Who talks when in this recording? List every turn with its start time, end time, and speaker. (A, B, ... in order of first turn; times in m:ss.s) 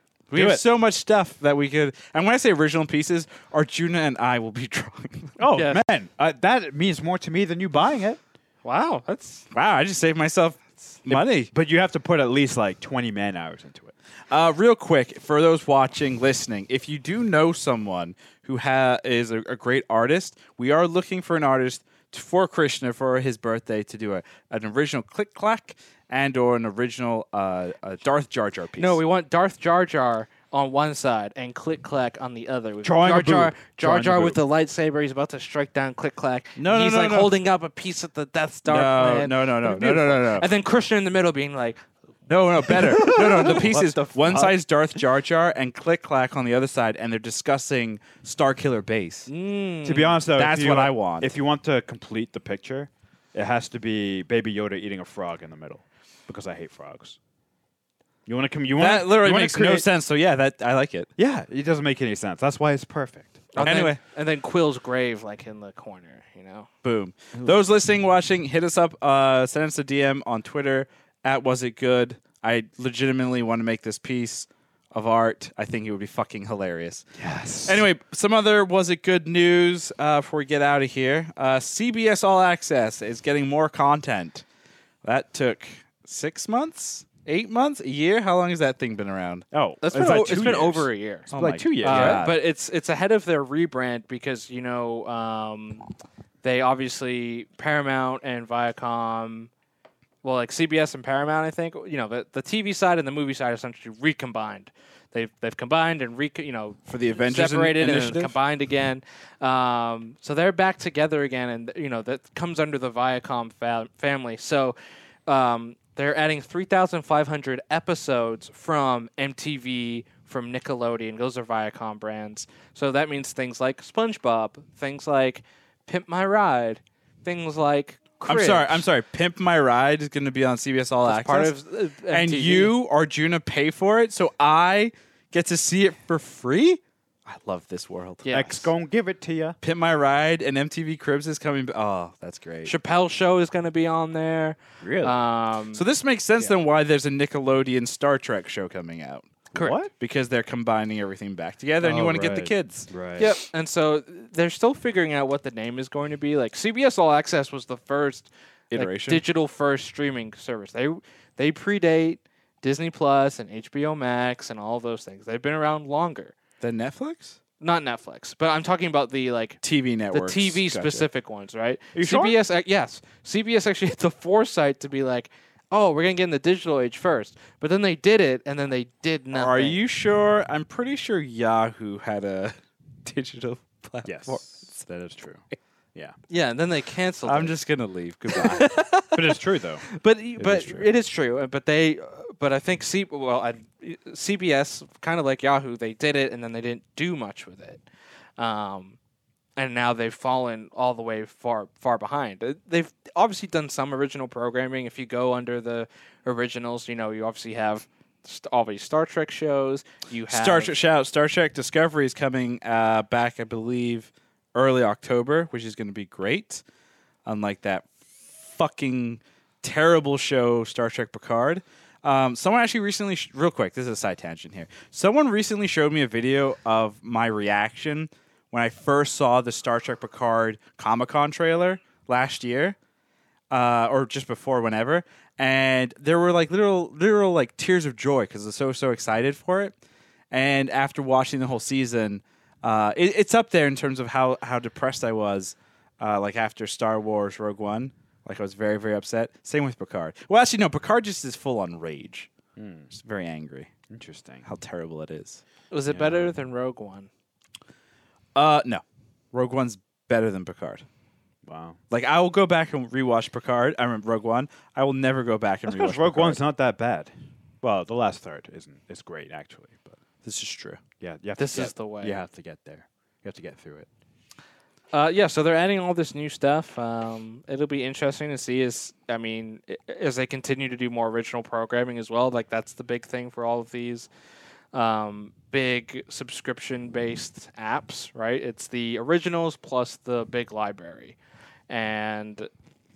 0:00.3-0:00.6 A
0:00.3-0:05.4 B
0:05.4-0:08.2 A
0:05.5-0:05.8 C
0:08.6-0:09.4 C
0:09.5-0:11.5 B
0:11.1-0:13.9 A
0:14.3-0:29.0 B
0:28.8-0:41.8 C
0:32.8-0:34.4 A
0:36.6-0:37.3 B
0:38.7-0:40.5 B
0:42.3-0:49.3 B
0:42.7-0:44.6 A
0:49.3-0:50.2 C
0:49.8-0:57.2 A
0:50.3-0:51.3 B
0:58.2-0:59.8 A
0:58.8-1:01.1 B
1:01.2-1:03.5 A
1:03.5-1:06.7 C
1:03.6-1:04.0 B
1:06.8-1:17.0 B
1:17.2-1:17.8 A
1:17.6-1:24.4 B
1:25.0-1:29.4 B
1:29.5-1:32.3 A
1:29.8-1:31.3 C
1:31.3-1:32.4 B
1:31.8-1:35.9 C
1:36.4-1:39.5 C
1:40.2-1:54.8 C
1:46.9-1:48.4 B
1:55.3-2:08.8 C
2:08.2-2:11.5 B
2:11.0-2:12.7 C
2:12.1-2:18.2 B
2:18.2-2:18.7 C
2:18.3-2:19.6 A
2:19.6-2:22.7 B
2:22.6-2:25.8 C
2:24.8-2:25.2 A
2:25.7-2:29.4 B
2:29.5-2:29.9 A
2:30.0-2:32.9 B
2:31.8-2:33.3 A
2:33.2-2:46.3 C
2:38.7-2:39.2 B
2:46.6-2:47.4 B
2:47.6-2:59.8 C
2:49.6-2:51.1 B
2:52.0-2:52.3 A
2:59.3-3:04.8 B
3:04.0-3:05.4 A
3:06.3-3:07.6 C
3:07.2-3:08.6 B
3:08.3-3:17.8 C
3:09.1-3:10.9 A
3:18.4-3:19.0 C
3:19.6-3:30.8 C
3:30.3-3:36.6 B
3:37.2-3:52.8 B
3:53.5-3:59.7 B
4:00.3-4:12.3 B
4:12.6-4:12.9 A
4:12.9-4:13.7 B
4:13.9-4:14.4 A
4:14.4-4:15.4 B
4:15.7-4:17.1 C
4:15.9-4:16.3 A
4:18.3-4:20.8 B
4:21.4-4:21.8 A
4:21.9-4:26.4 B
4:25.7-4:27.1 A
4:27.6-4:30.0 A
4:30.2-4:30.8 B
4:31.0-4:33.9 A
4:31.4-4:32.2 C
4:34.9-4:44.1 C
4:44.7-4:51.2 C
4:51.7-4:52.5 C